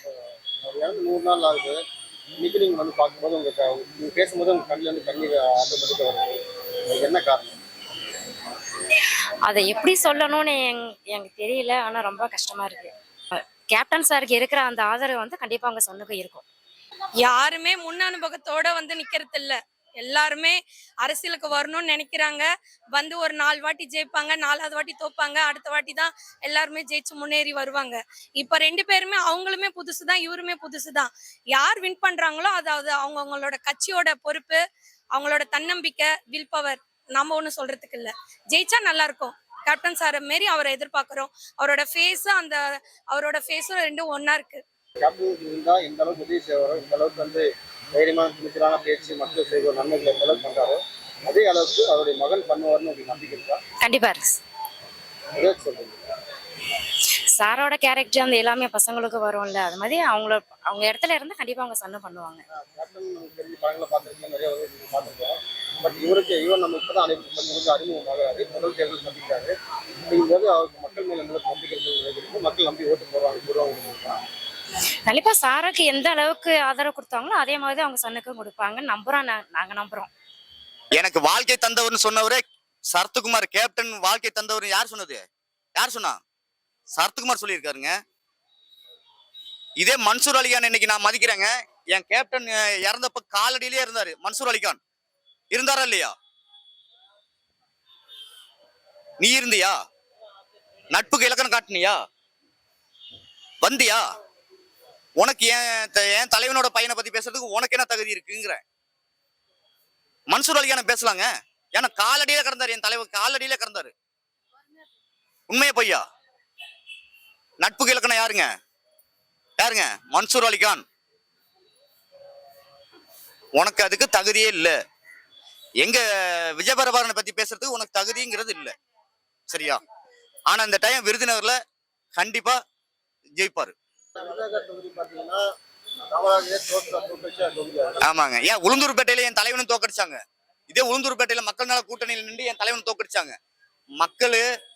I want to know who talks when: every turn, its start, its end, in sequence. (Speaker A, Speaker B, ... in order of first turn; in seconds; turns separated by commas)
Speaker A: 0.6-1.8, Speaker A: 2.4-6.4, Speaker A: 6.9-7.5, Speaker B: 9.4-16.4, Speaker C: 17.2-34.6, Speaker C: 35.1-44.6, Speaker A: 45.0-47.5, Speaker A: 48.0-53.6, Speaker B: 53.8-54.4, Speaker A: 55.4-56.0, Speaker B: 57.4-62.4, Speaker A: 62.6-69.5, Speaker A: 70.1-74.2, Speaker B: 75.1-80.1, Speaker D: 81.0-82.4, Speaker D: 82.9-85.2, Speaker D: 85.8-86.2, Speaker D: 86.9-87.9, Speaker D: 89.8-94.8, Speaker D: 95.5-96.1, Speaker D: 99.2-99.8, Speaker D: 100.9-102.0, Speaker D: 103.6-104.0, Speaker D: 105.2-108.6, Speaker D: 110.3-113.9, Speaker D: 115.5-116.0, Speaker D: 117.6-118.5, Speaker D: 119.6-120.8, Speaker D: 123.6-124.8, Speaker D: 125.8-128.7, Speaker D: 129.5-129.8, Speaker D: 130.5-131.6, Speaker D: 132.2-132.6, Speaker D: 133.4-133.7, Speaker A: 134.2-135.4, Speaker A: 136.1-137.9, Speaker D: 138.0-140.2, Speaker D: 140.7-143.3, Speaker D: 144.0-144.4